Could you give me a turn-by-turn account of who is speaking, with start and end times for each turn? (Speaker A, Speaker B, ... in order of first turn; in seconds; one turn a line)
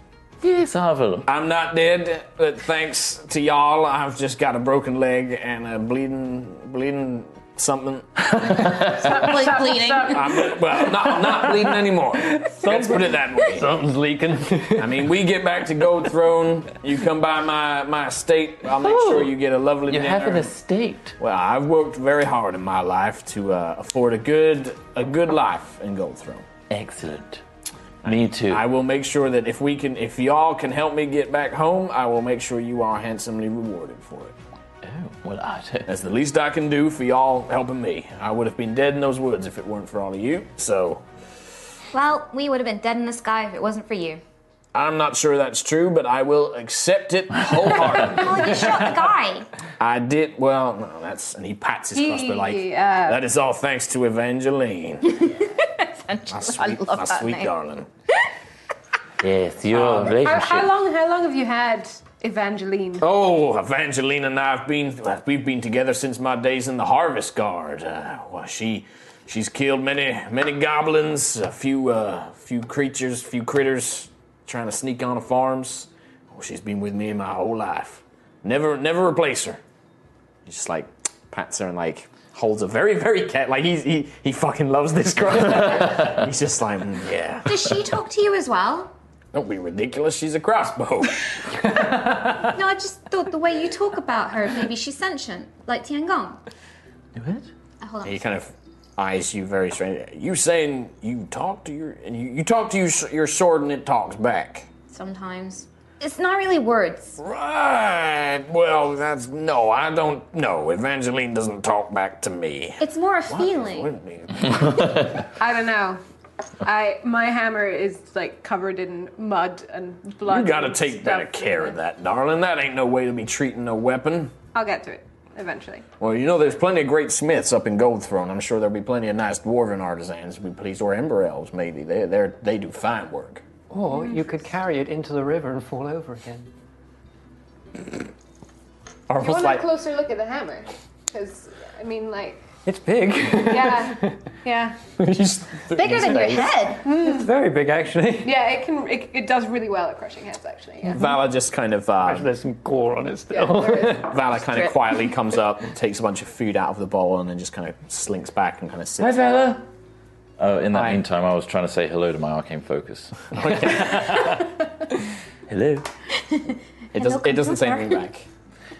Speaker A: 0.4-1.3
Speaker B: 1.2-8.8
Speaker C: 8.5-8.8
Speaker A: 8.7-9.2
Speaker D: 9.0-10.2
Speaker E: 9.1-10.2
Speaker B: 10.0-13.7
Speaker C: 11.0-15.1
Speaker B: 14.8-20.5
Speaker A: 18.8-19.3
Speaker A: 19.9-21.1
Speaker B: 21.2-26.4
Speaker A: 26.7-27.4
Speaker B: 28.0-34.3
Speaker A: 28.0-28.6
Speaker A: 34.8-35.9
Speaker B: 35.9-41.0
Speaker D: 41.9-44.2
Speaker B: 44.7-48.6
Speaker D: 47.9-49.5
Speaker B: 49.8-55.3
Speaker E: 51.9-53.2
Speaker D: 55.2-57.5
Speaker B: 56.3-57.9
Speaker A: 59.2-60.7
Speaker E: 59.8-63.1
Speaker B: 63.0-79.6
Speaker B: 80.5-87.8
Speaker D: 87.5-88.9
Speaker B: 89.3-91.8
Speaker C: 91.6-92.4
Speaker D: 92.4-96.4
Speaker A: 97.1-97.5
Speaker D: 97.8-98.3
Speaker B: 98.0-104.7
Speaker D: 104.9-107.2
Speaker B: 107.2-115.0
Speaker D: 112.8-113.9
Speaker A: 114.4-115.2
Speaker E: 115.4-116.0
Speaker E: 116.6-121.8
Speaker B: 120.2-124.3
Speaker E: 124.5-125.8
Speaker B: 126.0-133.4
Speaker C: 133.7-136.5
Speaker B: 139.1-139.7
Speaker E: 139.2-142.5
Speaker C: 142.6-144.2
Speaker E: 143.4-144.8
Speaker B: 145.0-146.5
Speaker D: 145.7-146.8
Speaker C: 146.8-148.3
Speaker E: 146.9-147.2
Speaker E: 148.2-151.0
Speaker B: 150.9-152.3
Speaker C: 152.0-154.1
Speaker E: 153.3-154.0
Speaker B: 154.0-159.2
Speaker A: 159.0-159.6
Speaker A: 160.4-163.9
Speaker B: 160.7-161.0
Speaker B: 163.3-164.3
Speaker C: 163.7-164.2
Speaker A: 165.5-165.9
Speaker D: 166.3-168.0
Speaker B: 166.9-168.3